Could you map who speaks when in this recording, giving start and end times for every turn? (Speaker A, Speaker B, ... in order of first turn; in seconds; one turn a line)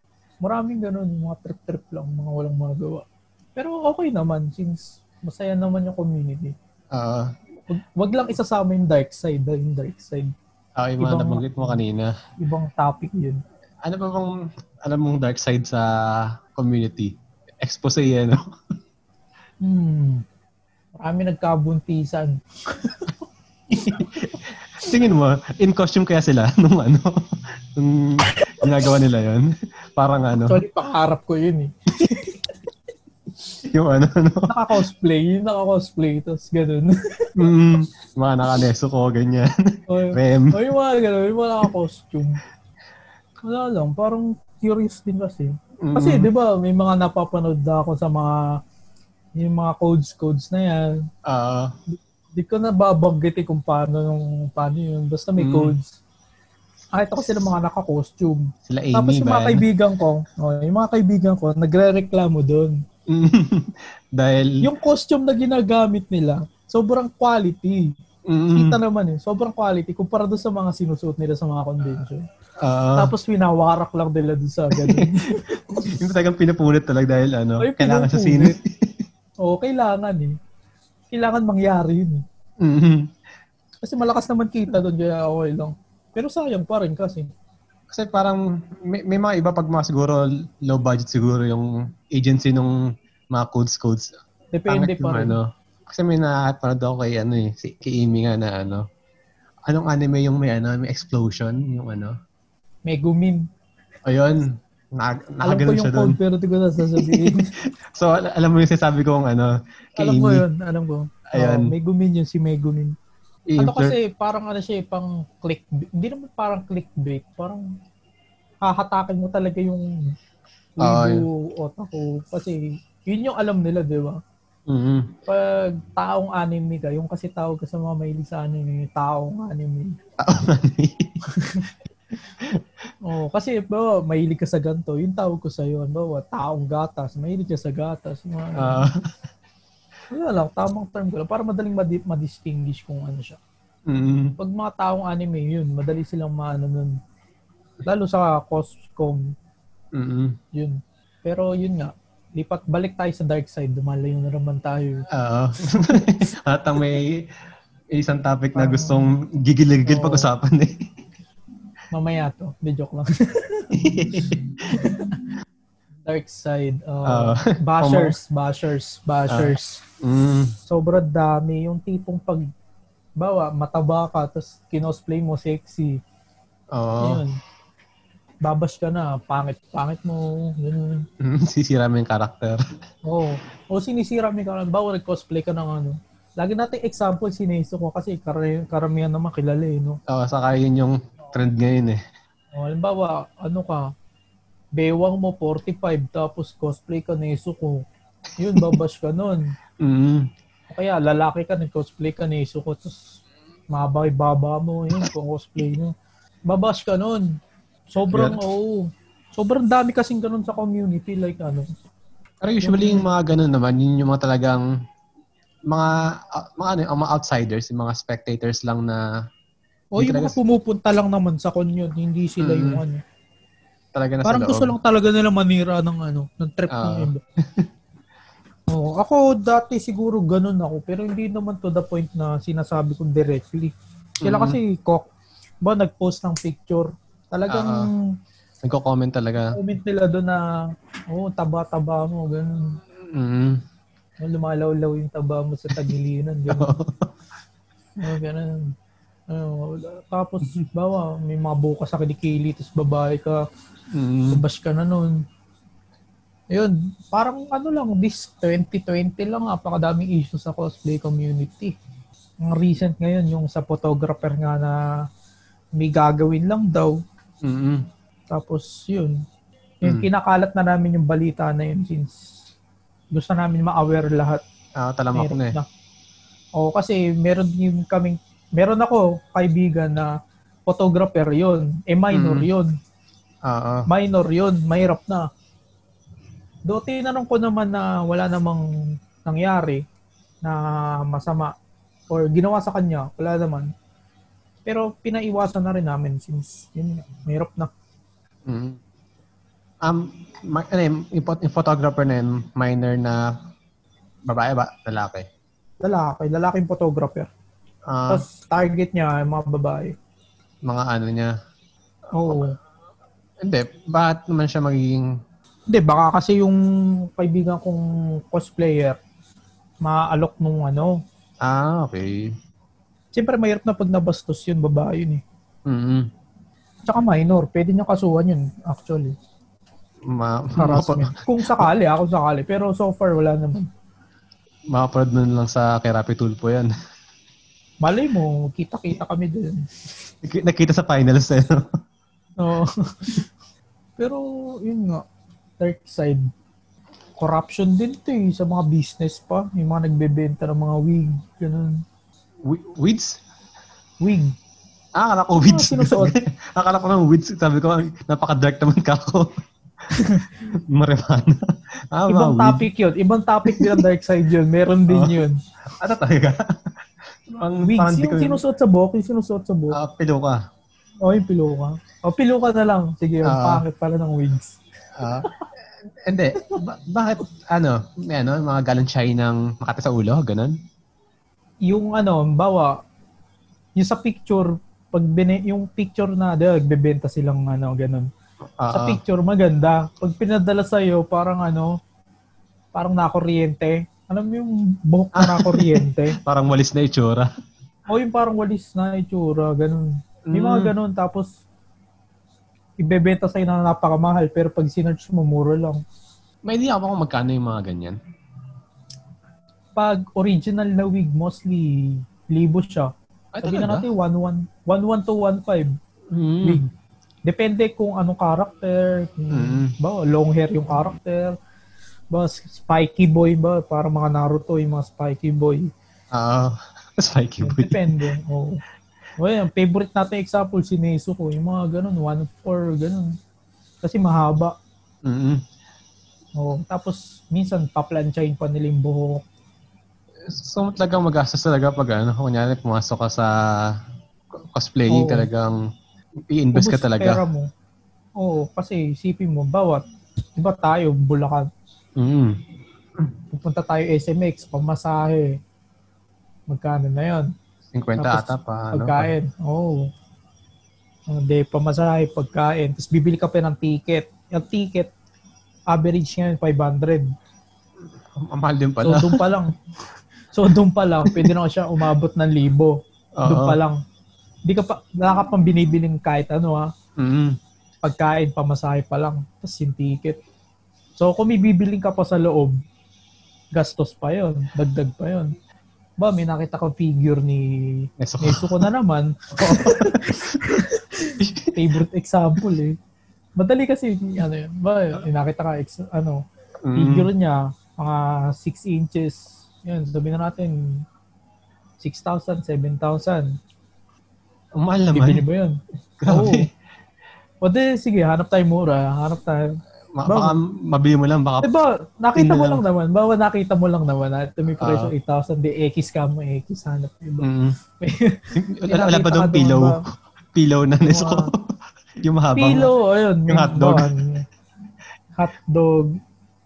Speaker A: 0.4-3.0
Speaker A: 3.5-6.5
Speaker B: 6.9-7.3
Speaker A: 7.7-10.3
Speaker B: 10.8-12.1
Speaker A: 11.0-11.8
Speaker A: 12.4-13.4
Speaker B: 13.8-18.4
Speaker A: 19.6-20.2
Speaker A: 21.0-23.1
Speaker B: 23.7-30.6
Speaker A: 30.4-32.4
Speaker B: 33.6-34.5
Speaker A: 34.5-37.3
Speaker B: 37.4-40.6
Speaker A: 39.9-42.4
Speaker A: 43.4-48.4
Speaker B: 45.8-46.3
Speaker A: 49.4-51.0
Speaker B: 51.2-51.7
Speaker A: 51.9-56.0
Speaker B: 55.4-55.7
Speaker A: 56.9-62.8
Speaker B: 58.7-59.6
Speaker B: 63.1-64.6
Speaker A: 64.6-67.9
Speaker B: 68.3-68.8
Speaker A: 68.5-72.2
Speaker B: 72.6-73.1
Speaker A: 73.0-76.0
Speaker B: 74.7-79.0
Speaker A: 77.6-78.6
Speaker A: 79.4-80.3
Speaker A: 81.1-82.2
Speaker B: 82.6-83.1
Speaker A: 83.8-87.3
Speaker B: 87.9-92.8
Speaker B: 93.3-94.1
Speaker A: 94.5-95.4
Speaker B: 94.7-98.8
Speaker B: 99.7-102.2
Speaker A: 102.9-103.5
Speaker B: 104.0-106.2
Speaker A: 105.4-107.5
Speaker B: 106.8-110.5
Speaker A: 110.0-112.9
Speaker B: 111.3-111.7
Speaker B: 113.5-114.0
Speaker A: 113.6-117.6
Speaker A: 118.6-119.9
Speaker A: 120.8-124.2
Speaker B: 120.8-121.2
Speaker B: 124.7-125.1
Speaker A: 125.3-129.9
Speaker B: 130.2-131.2
Speaker A: 131.3-131.7
Speaker A: 133.0-138.8
Speaker B: 138.6-139.1
Speaker A: 140.1-143.4
Speaker B: 143.9-144.3
Speaker A: 144.4-147.0
Speaker A: 147.8-149.3
Speaker B: 149.9-150.4
Speaker A: 150.5-155.1
Speaker B: 155.1-157.3
Speaker B: 157.9-160.8
Speaker A: 158.5-159.1
Speaker A: 159.8-160.3
Speaker A: 161.9-165.2
Speaker B: 163.7-164.9
Speaker A: 166.1-169.8
Speaker B: 167.1-168.2
Speaker B: 169.3-170.6
Speaker A: 170.6-172.4
Speaker A: 173.2-176.0
Speaker B: 176.7-177.2
Speaker A: 177.0-177.4
Speaker A: 178.4-181.1
Speaker B: 181.2-182.6
Speaker A: 183.0-190.0
Speaker B: 190.1-192.0
Speaker A: 192.5-193.9
Speaker A: 194.8-197.8
Speaker A: 198.4-199.5
Speaker B: 199.8-200.3
Speaker A: 200.7-203.2
Speaker A: 203.7-205.9
Speaker A: 206.5-207.3
Speaker A: 207.9-211.7
Speaker B: 208.1-208.4
Speaker B: 212.4-214.6
Speaker A: 212.6-213.1
Speaker B: 215.7-219.0
Speaker A: 219.9-223.0
Speaker B: 220.0-220.3
Speaker B: 222.4-222.8
Speaker B: 223.9-224.7
Speaker A: 224.2-227.2
Speaker B: 226.7-227.7
Speaker A: 228.7-235.1
Speaker B: 234.2-234.6
Speaker A: 235.6-238.0
Speaker B: 237.5-237.9
Speaker B: 238.6-239.5
Speaker A: 239.5-240.4
Speaker A: 241.1-242.8
Speaker B: 243.0-243.6
Speaker A: 244.2-246.8
Speaker B: 246.5-247.1
Speaker A: 248.0-248.7
Speaker A: 249.3-253.4
Speaker B: 253.9-254.4
Speaker A: 254.3-255.2
Speaker A: 256.5-261.7
Speaker A: 262.4-264.8
Speaker A: 265.8-267.0
Speaker B: 267.4-267.9
Speaker A: 268.3-269.2
Speaker A: 269.8-272.2
Speaker A: 273.1-274.4
Speaker B: 274.8-275.6
Speaker A: 275.1-275.6
Speaker A: 276.6-280.1
Speaker A: 280.7-282.7
Speaker B: 282.1-282.5
Speaker B: 283.4-283.9
Speaker A: 283.9-285.3
Speaker A: 286.7-288.6
Speaker A: 289.2-289.8
Speaker A: 290.4-291.5
Speaker A: 292.1-293.7
Speaker A: 294.6-297.7
Speaker B: 298.5-298.8
Speaker B: 299.8-303.3
Speaker B: 304.3-305.3
Speaker A: 305.8-307.3
Speaker B: 307.9-308.2
Speaker A: 308.1-309.9
Speaker B: 310.6-311.3
Speaker A: 312.1-312.6
Speaker B: 313.4-315.1
Speaker A: 315.7-319.0
Speaker A: 319.8-321.0
Speaker B: 321.4-322.3
Speaker A: 323.1-325.2
Speaker B: 325.6-326.1
Speaker A: 326.9-329.1
Speaker B: 330.1-331.7
Speaker A: 330.6-333.7
Speaker B: 334.7-336.7
Speaker A: 337.8-339.6
Speaker B: 340.2-341.7
Speaker A: 342.4-343.3
Speaker A: 344.0-345.0
Speaker A: 345.6-346.3
Speaker A: 347.2-351.8
Speaker B: 352.4-353.2
Speaker A: 354.0-354.3
Speaker B: 354.9-359.3
Speaker A: 355.4-356.1
Speaker A: 359.9-360.3
Speaker B: 360.4-362.7
Speaker A: 362.1-365.4
Speaker B: 363.4-363.8
Speaker B: 364.9-365.2
Speaker B: 365.8-368.4
Speaker A: 367.6-369.8
Speaker B: 369.7-370.4
Speaker A: 371.0-374.6
Speaker B: 373.2-373.6
Speaker B: 374.9-375.3
Speaker B: 376.0-380.6
Speaker A: 381.7-382.7
Speaker A: 383.8-388.1
Speaker B: 388.6-389.0
Speaker A: 388.7-391.8
Speaker A: 392.7-396.2
Speaker B: 395.2-397.3
Speaker A: 397.9-401.3
Speaker B: 400.3-400.7
Speaker A: 402.8-405.8
Speaker B: 406.4-408.0
Speaker A: 409.8-412.9
Speaker B: 413.3-413.9
Speaker A: 413.4-415.7
Speaker B: 416.1-416.6
Speaker A: 416.4-416.7
Speaker A: 417.3-421.3
Speaker B: 419.3-419.7
Speaker A: 422.1-425.7
Speaker B: 426.1-428.0
Speaker A: 427.4-428.6
Speaker A: 429.2-433.1
Speaker A: 433.8-434.5
Speaker B: 435.0-435.4
Speaker A: 436.4-439.2
Speaker B: 440.3-443.7
Speaker B: 444.4-445.6
Speaker A: 444.9-445.3
Speaker B: 446.3-447.2
Speaker A: 446.5-447.5
Speaker A: 448.2-449.8
Speaker A: 450.4-451.5
Speaker B: 452.0-452.4
Speaker A: 453.3-455.4
Speaker A: 456.5-457.3
Speaker B: 457.7-459.1
Speaker A: 458.0-459.9
Speaker A: 461.1-464.9
Speaker A: 465.7-467.1
Speaker B: 468.1-469.3
Speaker A: 468.8-469.5
Speaker A: 470.3-473.8
Speaker B: 471.0-471.3
Speaker B: 473.2-473.6
Speaker A: 474.5-476.7
Speaker B: 477.0-477.4
Speaker A: 477.8-480.2
Speaker A: 481.0-482.6
Speaker A: 483.5-485.3
Speaker A: 486.0-492.8
Speaker B: 488.0-488.7
Speaker B: 489.4-490.6
Speaker B: 491.2-491.8
Speaker A: 493.4-496.2
Speaker B: 496.6-497.1
Speaker A: 496.7-500.8
Speaker A: 501.8-503.3
Speaker B: 504.6-505.2
Speaker A: 504.9-506.4
Speaker B: 506.0-506.5
Speaker A: 507.4-510.4
Speaker B: 509.9-511.5
Speaker A: 511.4-517.3
Speaker B: 512.1-512.6
Speaker B: 514.6-514.9
Speaker B: 517.2-517.5
Speaker A: 517.8-519.8
Speaker B: 518.4-519.8
Speaker B: 520.3-522.7
Speaker A: 520.8-521.3
Speaker A: 522.4-524.2
Speaker B: 523.3-523.9
Speaker A: 525.2-525.9